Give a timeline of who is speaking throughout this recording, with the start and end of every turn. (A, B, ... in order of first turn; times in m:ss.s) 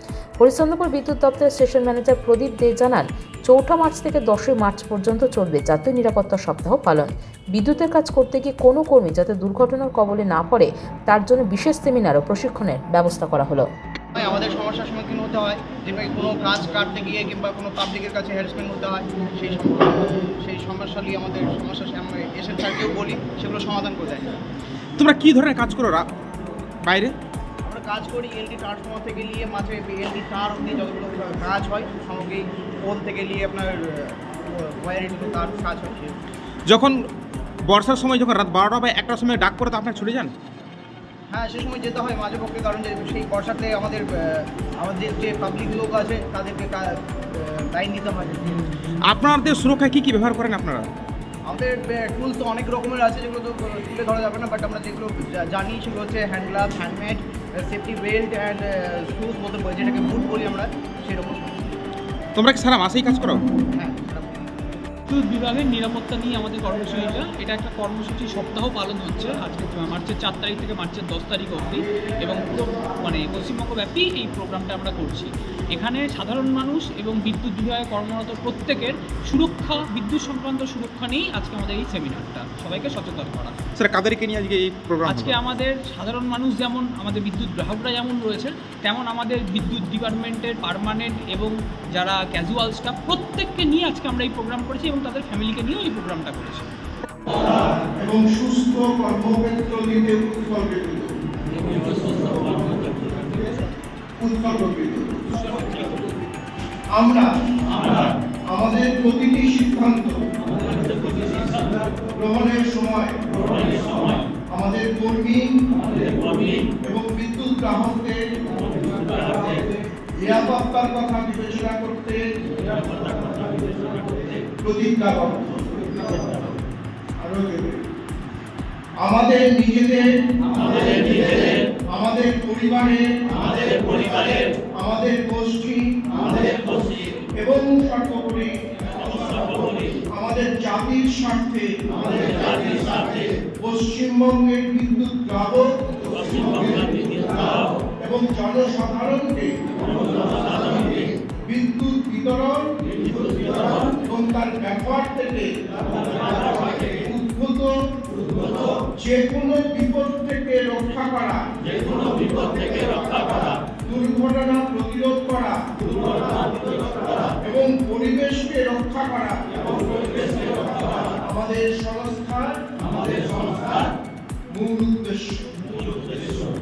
0:00.4-0:13.7 A
0:14.1-0:24.3 B
0:25.0-0:26.0 C
0:26.8-0:27.1 C
0:27.6-0:33.8 B
0:34.8-0:36.1 B
0:36.7-0:37.0 C
0:37.7-0:40.3 C
0:41.3-0:44.1 B
0:44.8-0:48.6 B
0:49.1-0:50.9 C
0:51.5-1:01.6 B
1:02.4-1:03.4 C
1:03.7-1:04.5 B
1:05.1-1:23.5 D
1:23.8-1:25.3 C
1:25.1-1:36.7 D
1:38.0-1:41.1 E
1:44.2-1:45.8 E
1:47.0-1:47.2 E
1:48.5-1:50.2 E
1:52.2-1:53.7 E
1:54.5-1:55.5 E
1:56.8-1:58.2 E
1:59.0-2:02.2 E
2:04.6-2:06.6 E
2:07.2-2:07.8 E
2:09.0-2:10.0 E
2:10.6-2:16.6 E
2:17.4-2:23.1 E
2:23.6-2:27.5 E
2:28.0-2:29.5 E
2:31.5-2:35.5 E
2:36.2-2:37.7 E
2:38.9-2:41.4 E
2:41.9-2:46.4 E
2:47.4-2:53.9 E
2:54.5-2:55.9 E